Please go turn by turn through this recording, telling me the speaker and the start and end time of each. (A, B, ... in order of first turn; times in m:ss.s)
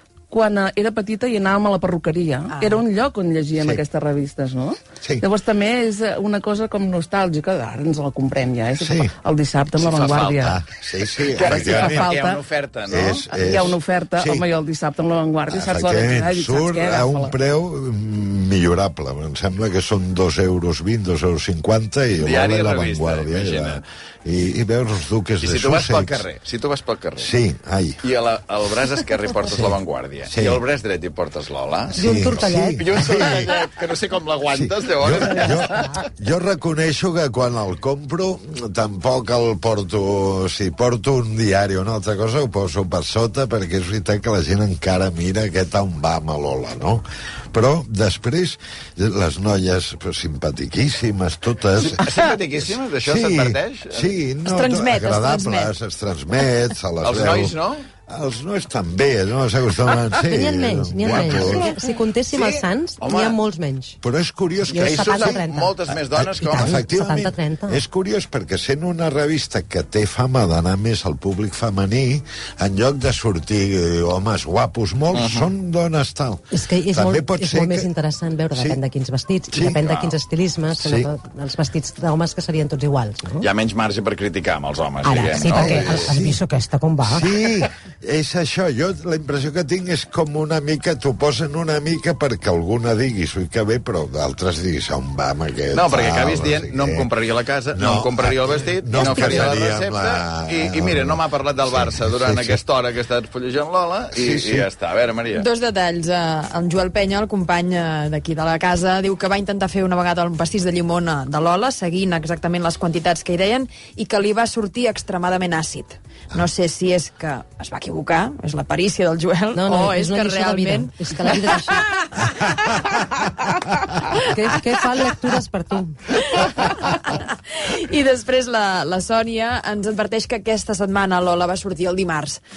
0:00.3-0:10.6 A
0:02.5-0:02.8 B
0:03.6-0:03.8 C
0:08.8-0:09.1 C
0:09.8-0:10.5 D
0:10.4-0:12.2 C
0:11.3-0:13.7 D
0:11.3-0:12.4 A
0:12.9-0:14.4 C
0:13.2-0:17.3 A
0:15.5-0:26.2 C
0:22.2-0:23.8 D
0:25.4-0:27.3 D
0:27.2-0:28.0 C
0:28.0-0:36.0 D
0:29.4-0:29.8 C
0:30.3-0:30.6 C
0:31.9-0:33.5 C
0:32.0-0:32.9 E
0:34.5-0:52.0 C
0:51.8-0:54.1 D
0:53.0-0:57.6 C
0:54.4-0:55.7 B
0:57.0-0:57.8 D
0:58.1-1:01.7 C
1:00.2-1:04.0 E
1:01.0-1:01.6 D
1:02.3-1:03.4 D
1:04.0-1:17.9 C
1:04.7-1:05.7 E
1:04.7-1:06.8 D
1:06.3-1:07.8 E
1:15.1-1:15.5 D
1:16.5-1:23.4 E
1:18.5-1:18.8 C
1:19.5-1:19.8 C
1:19.8-1:20.2 D
1:20.7-1:21.1 C
1:23.4-1:26.1 D
1:25.0-1:27.2 E
1:25.5-1:26.4 C
1:27.0-1:37.1 C
1:35.7-1:45.5 D
1:37.7-1:42.6 C
1:38.9-1:39.5 E
1:44.1-1:44.7 C
1:45.3-2:05.3 B
1:59.5-2:01.8 E
2:02.2-2:02.9 C
2:04.2-2:06.2 E
2:06.1-2:12.4 B